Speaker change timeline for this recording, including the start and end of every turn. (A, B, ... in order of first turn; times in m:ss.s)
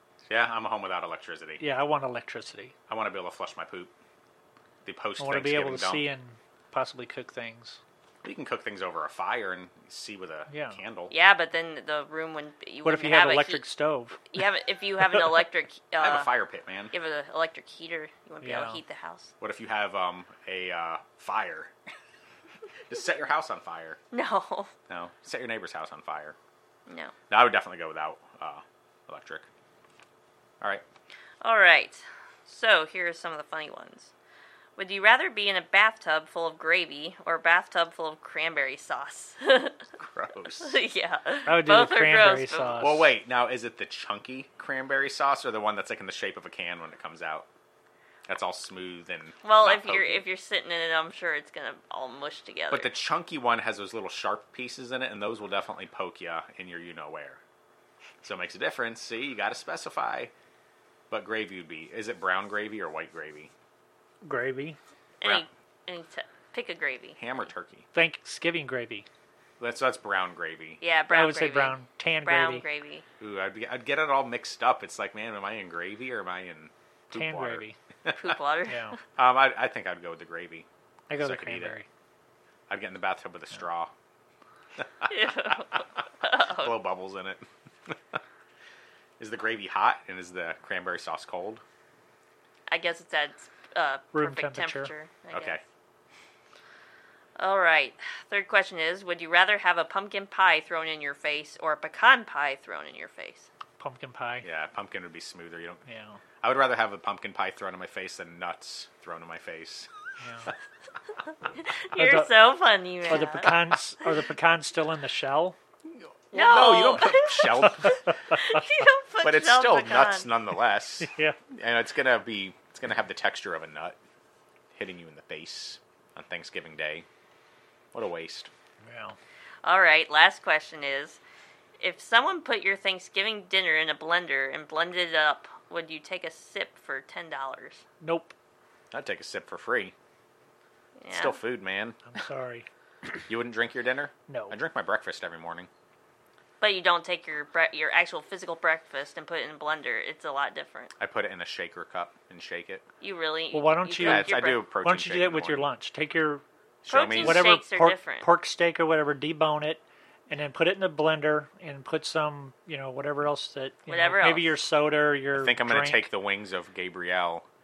0:00.3-0:01.6 A
0:01.6-0:02.7 B
0:02.9-0:03.9 A
0:04.8-0:06.0 A
0:05.2-0:07.8 B
0:08.2-0:11.1 A
0:10.5-0:10.8 B
0:11.1-0:13.6 C
0:12.8-0:14.2 B
0:14.3-0:16.3 C
0:16.0-0:16.9 A
0:16.9-0:19.3 C
0:18.4-0:18.8 B
0:19.4-0:21.7 A
0:22.9-0:24.0 A
0:24.1-0:24.7 C
0:24.9-0:26.4 A
0:26.9-0:27.1 C
0:27.3-0:29.4 A
0:31.4-0:34.1 C
0:34.8-0:39.9 C
0:40.0-0:40.8 A
0:40.6-0:42.8 C
0:41.4-0:43.1 B
0:42.8-0:47.5 A
0:48.3-0:50.2 A
0:49.4-0:52.9 C
0:52.7-0:57.4 A
0:58.2-1:00.3 A
1:01.1-1:03.5 A
1:04.2-1:04.8 B
1:05.2-1:07.2 C
1:05.2-1:05.5 A
1:07.2-1:07.9 A
1:07.9-1:09.1 B
1:09.6-1:10.8 A
1:10.8-1:13.0 C
1:11.1-1:12.6 B
1:13.2-1:18.4 A
1:17.1-1:17.8 B
1:18.1-1:18.9 C
1:18.7-1:19.0 B
1:19.2-1:20.7 A
1:21.1-1:21.9 B
1:21.2-1:21.8 A
1:22.7-1:23.9 A
1:24.8-1:25.7 A
1:25.1-1:26.8 C
1:26.4-1:28.2 A
1:29.2-1:31.6 A
1:32.7-1:35.6 C
1:34.1-1:34.9 B
1:35.3-1:35.6 A
1:37.4-1:43.5 C
1:43.8-1:44.4 B
1:44.4-1:45.8 A
1:45.8-1:46.2 B
1:46.4-1:49.9 A
1:50.2-1:50.5 B
1:51.5-1:53.8 C
1:52.0-1:52.5 B
1:53.1-1:55.6 B
1:55.9-1:58.1 A
1:56.3-2:00.3 C
1:57.6-1:58.8 B
1:59.2-2:04.0 A
2:01.0-2:01.4 B
2:04.7-2:07.0 A
2:07.9-2:08.5 A
2:08.8-2:09.2 B
2:09.6-2:11.2 C
2:11.8-2:17.8 C
2:18.0-2:18.3 B
2:18.9-2:19.9 A
2:21.0-2:21.4 C
2:21.1-2:22.2 A
2:22.0-2:22.7 B
2:23.2-2:25.7 A
2:24.3-2:24.6 B
2:26.6-2:30.9 C
2:31.0-2:32.8 A
2:33.0-2:34.6 C
2:33.5-2:36.4 B
2:34.0-2:35.7 A
2:36.8-2:37.5 A
2:36.9-2:38.3 C
2:37.2-2:46.1 B
2:43.9-2:44.6 C
2:45.3-2:47.4 A